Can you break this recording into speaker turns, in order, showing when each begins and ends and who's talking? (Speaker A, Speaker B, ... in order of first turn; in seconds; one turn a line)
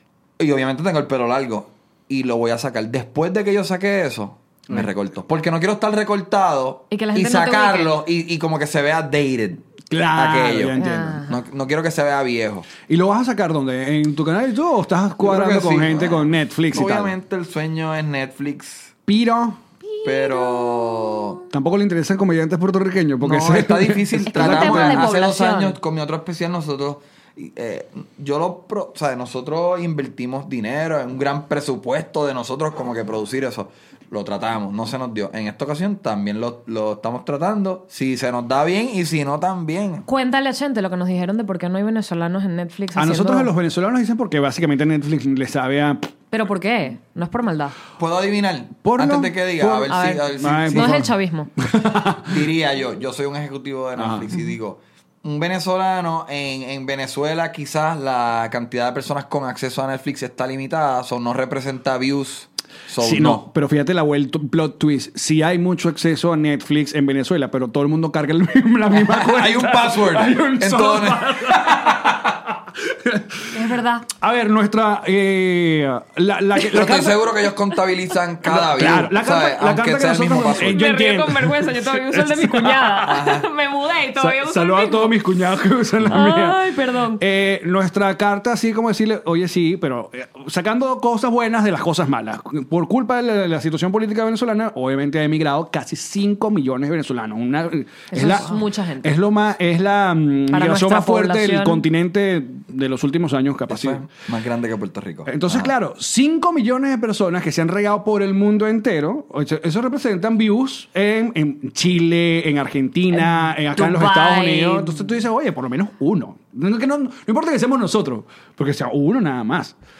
Speaker A: 0.4-12.7
Speaker B: 6.9-8.0
Speaker C: 9.9-11.2
Speaker B: 10.8-11.3
Speaker C: 12.8-17.1
Speaker A: 15.2-19.0
Speaker C: 19.1-19.6
Speaker B: 19.9-21.4
Speaker A: 20.0-21.4
Speaker C: 21.5-25.1
Speaker A: 23.2-40.0
Speaker B: 24.3-25.8
Speaker B: 40.0-43.5
Speaker C: 43.0-46.1
Speaker B: 46.3-47.8
Speaker A: 48.0-51.0
Speaker C: 48.8-51.1
Speaker B: 49.8-51.5
Speaker C: 51.6-52.4
Speaker A: 52.3-63.5
Speaker C: 54.0-54.3
Speaker C: 63.0-77.2
Speaker A: 68.9-72.3
Speaker B: 73.5-74.1
Speaker A: 76.7-80.8
Speaker C: 78.5-83.2
Speaker B: 80.7-85.2
Speaker A: 83.0-83.5
Speaker C: 84.2-86.6
Speaker B: 86.1-87.2
Speaker C: 87.2-98.5
Speaker B: 98.1-99.1
Speaker A: 98.2-98.6
Speaker C: 99.0-104.0
Speaker B: 100.5-101.8
Speaker A: 103.7-105.7
Speaker C: 105.3-119.7
Speaker B: 113.1-115.0